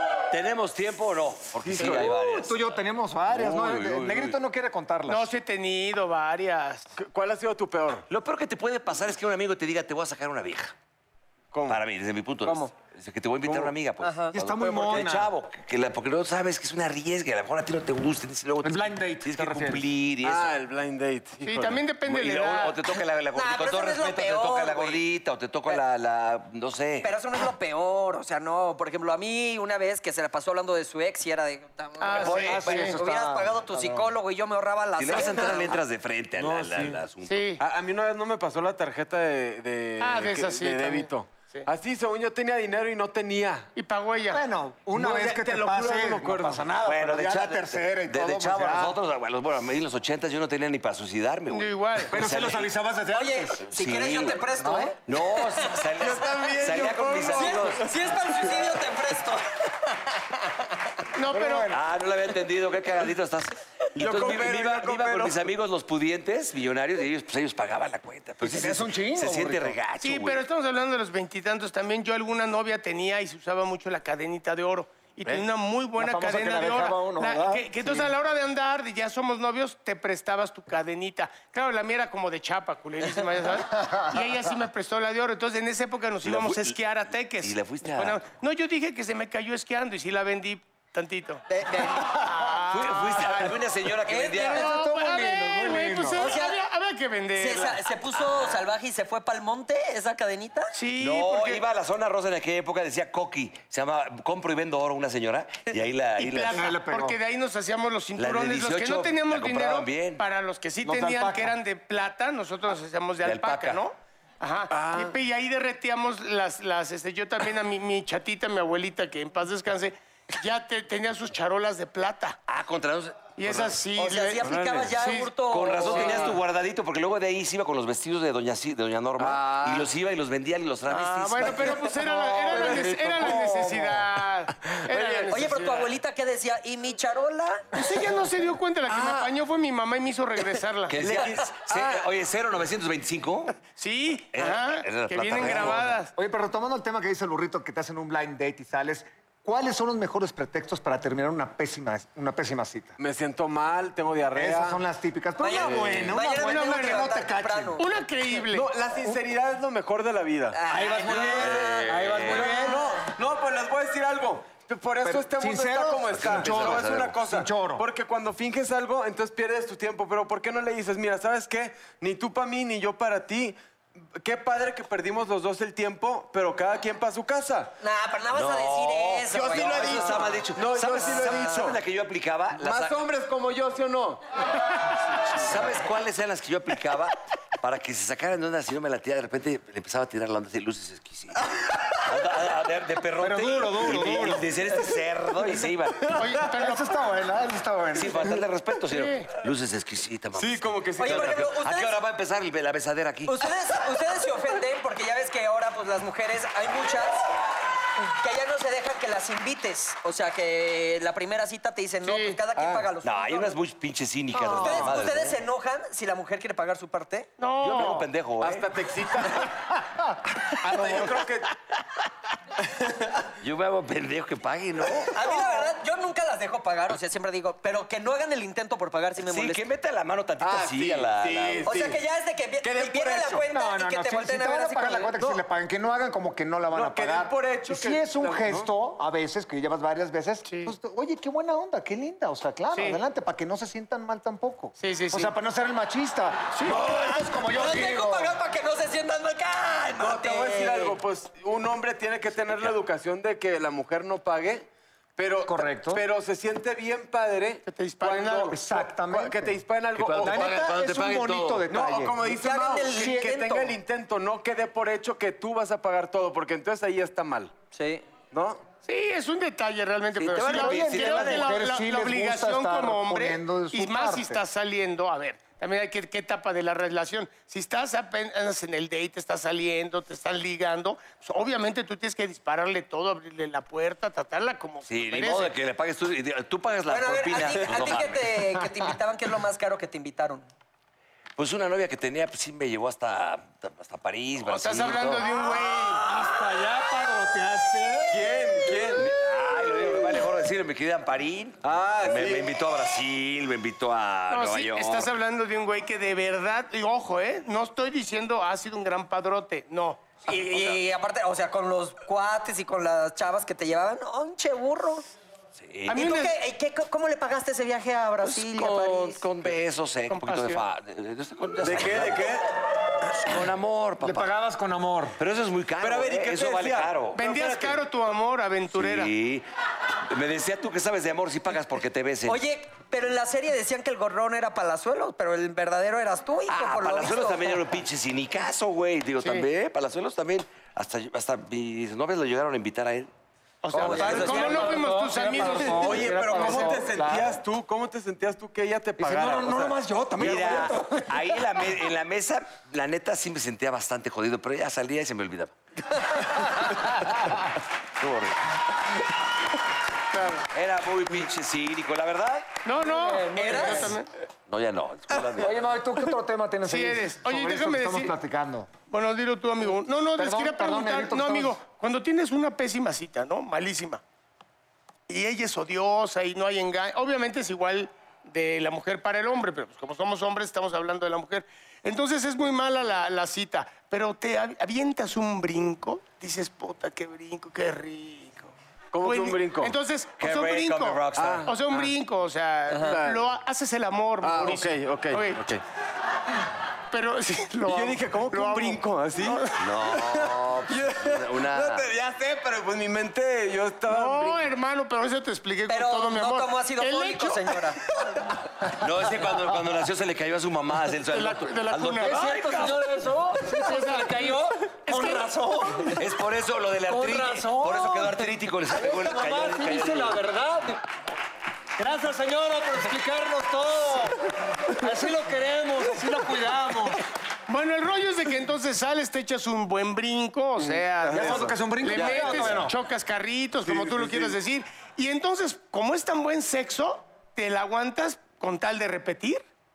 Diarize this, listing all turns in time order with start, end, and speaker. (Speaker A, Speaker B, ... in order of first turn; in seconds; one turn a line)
Speaker A: 0.3-2.6
Speaker B: 1.7-5.3
Speaker A: 3.3-4.3
Speaker C: 5.1-6.9
Speaker D: 7.0-8.1
Speaker A: 8.1-10.7
Speaker D: 11.5-11.8
Speaker A: 11.7-20.5
Speaker D: 13.4-13.7
Speaker E: 14.0-14.3
Speaker B: 14.3-15.3
Speaker B: 18.6-19.8
Speaker D: 20.2-21.9
Speaker C: 21.4-22.9
Speaker A: 22.1-27.1
Speaker E: 23.4-25.0
Speaker E: 27.0-35.8
Speaker C: 32.0-33.0
Speaker A: 32.1-33.0
Speaker B: 32.2-34.1
Speaker A: 35.0-37.5
Speaker B: 36.4-37.0
Speaker C: 37.3-37.6
Speaker D: 37.6-43.7
Speaker C: 40.0-41.7
Speaker C: 43.8-44.4
Speaker B: 44.3-49.0
Speaker D: 45.0-46.7
Speaker A: 46.9-52.7
Speaker C: 51.5-52.2
Speaker B: 52.1-53.6
Speaker E: 53.1-55.8
Speaker A: 53.6-54.4
Speaker B: 54.6-54.9
Speaker A: 55.1-57.9
Speaker D: 56.0-58.0
Speaker E: 57.3-59.7
Speaker C: 61.1-61.7
Speaker B: 61.3-61.8
Speaker A: 61.7-70.4
Speaker D: 64.0-65.5
Speaker B: 68.4-69.8
Speaker C: 70.0-91.4
Speaker B: 76.0-78.1
Speaker B: 83.8-84.3
Speaker A: 86.2-86.8
Speaker A: 87.4-88.2
Speaker E: 91.5-92.3
Speaker C: 92.2-93.6
Speaker A: 92.7-94.7
Speaker E: 94.1-94.6
Speaker C: 94.5-97.9
Speaker B: 94.5-96.3
Speaker E: 96.1-96.6
Speaker E: 97.4-100.7
Speaker C: 100.7-101.6
Speaker A: 101.0-106.7
Speaker C: 106.2-122.4
Speaker B: 106.5-107.2
Speaker A: 108.2-110.2
Speaker B: 110.8-111.6
Speaker A: 113.2-113.8
Speaker D: 114.7-115.2
Speaker A: 122.5-123.8
Speaker C: 123.4-126.3
Speaker E: 124.0-126.4
Speaker D: 124.4-125.0
Speaker A: 125.5-133.0
Speaker D: 129.2-129.6
Speaker E: 129.4-129.8
Speaker C: 130.9-135.6
Speaker D: 132.5-133.6
Speaker B: 132.6-134.1
Speaker D: 134.7-135.8
Speaker E: 135.3-137.8
Speaker C: 137.7-141.0
Speaker A: 138.9-139.3
Speaker A: 140.9-143.6
Speaker D: 140.9-142.0
Speaker C: 143.7-146.1
Speaker A: 144.3-146.0
Speaker B: 145.4-153.0
Speaker D: 153.0-154.8
Speaker B: 154.3-157.8
Speaker E: 155.4-158.0
Speaker D: 155.6-156.2
Speaker C: 156.3-157.1
Speaker C: 157.8-158.7
Speaker D: 158.5-173.6
Speaker E: 160.5-161.7
Speaker B: 160.7-162.9
Speaker A: 160.9-162.7
Speaker B: 165.0-167.9
Speaker A: 166.1-167.2
Speaker D: 174.2-177.7
Speaker E: 177.8-181.7
Speaker A: 178.3-183.0
Speaker D: 179.3-181.8
Speaker D: 182.6-184.2
Speaker A: 185.3-196.2
Speaker B: 193.2-194.8
Speaker D: 193.9-194.2
Speaker C: 196.2-196.9
Speaker B: 196.4-198.5
Speaker A: 197.9-203.4
Speaker C: 198.9-199.3
Speaker D: 200.3-201.5
Speaker E: 201.0-202.0
Speaker E: 203.3-207.3
Speaker E: 208.0-213.6
Speaker C: 212.0-212.4
Speaker D: 212.6-212.8
Speaker A: 213.0-215.4
Speaker B: 214.3-215.0
Speaker E: 214.4-217.3
Speaker C: 217.4-218.1
Speaker A: 217.6-218.7
Speaker D: 218.4-219.7
Speaker D: 220.4-221.5
Speaker D: 222.7-223.2
Speaker A: 223.4-225.2
Speaker E: 225.1-229.6
Speaker A: 229.2-231.7
Speaker D: 230.4-232.0
Speaker E: 231.6-235.2
Speaker D: 232.6-233.4
Speaker B: 233.5-248.3
Speaker D: 236.7-238.7
Speaker C: 240.5-240.7
Speaker C: 242.7-243.0
Speaker C: 244.8-245.3
Speaker C: 246.6-246.8
Speaker E: 247.0-251.0
Speaker D: 250.0-260.7
Speaker A: 252.5-252.7
Speaker B: 255.4-256.0
Speaker C: 257.7-258.6
Speaker B: 258.5-259.6
Speaker A: 260.0-261.7
Speaker B: 260.2-262.3
Speaker D: 261.7-267.6
Speaker E: 262.3-263.8
Speaker B: 262.9-263.4
Speaker E: 267.7-268.1
Speaker D: 268.3-268.6
Speaker C: 268.9-285.5
Speaker E: 270.2-271.6
Speaker B: 270.5-274.4
Speaker A: 270.5-271.4
Speaker A: 284.9-288.4
Speaker E: 286.9-290.4
Speaker A: 291.4-295.3
Speaker C: 294.4-296.1
Speaker B: 295.7-298.2
Speaker D: 298.1-299.1
Speaker A: 298.7-305.1
Speaker D: 301.6-302.5
Speaker C: 304.3-310.1
Speaker E: 310.2-315.1
Speaker A: 315.6-316.0
Speaker C: 315.9-316.4
Speaker E: 315.9-319.3
Speaker A: 318.2-322.3
Speaker C: 320.1-320.6
Speaker D: 321.6-322.5
Speaker A: 323.1-324.3
Speaker B: 324.0-325.2
Speaker A: 325.2-327.8
Speaker D: 325.8-326.9
Speaker C: 327.1-329.1
Speaker A: 328.7-329.4
Speaker A: 330.1-332.4
Speaker E: 332.3-337.6
Speaker A: 336.5-343.1
Speaker C: 339.2-339.5
Speaker C: 343.6-346.9
Speaker B: 343.7-347.3
Speaker A: 343.7-344.9
Speaker D: 343.9-344.6
Speaker D: 345.3-349.8
Speaker B: 349.0-351.3
Speaker A: 350.2-357.4
Speaker E: 356.0-356.8
Speaker A: 358.0-358.4
Speaker A: 360.5-362.5
Speaker C: 362.6-364.1
Speaker B: 362.8-364.0
Speaker E: 363.4-363.9
Speaker A: 364.5-365.6
Speaker B: 365.4-368.7
Speaker C: 366.7-368.1
Speaker C: 368.9-374.0
Speaker B: 369.7-371.6
Speaker C: 375.1-388.5
Speaker D: 388.9-389.8
Speaker C: 389.0-395.4
Speaker A: 390.2-391.6
Speaker D: 391.2-391.9
Speaker D: 392.7-393.3
Speaker D: 394.2-395.6
Speaker C: 396.9-399.6
Speaker D: 397.7-404.5
Speaker A: 399.6-401.9
Speaker C: 403.9-407.7
Speaker E: 405.7-407.8
Speaker A: 408.7-412.9
Speaker C: 411.1-412.3
Speaker B: 412.0-416.1
Speaker C: 413.5-415.3
Speaker A: 415.8-420.2
Speaker B: 416.9-420.8
Speaker B: 421.8-427.0
Speaker C: 427.5-439.4
Speaker D: 430.6-432.5
Speaker B: 431.1-432.7
Speaker A: 432.0-432.6
Speaker D: 433.6-434.4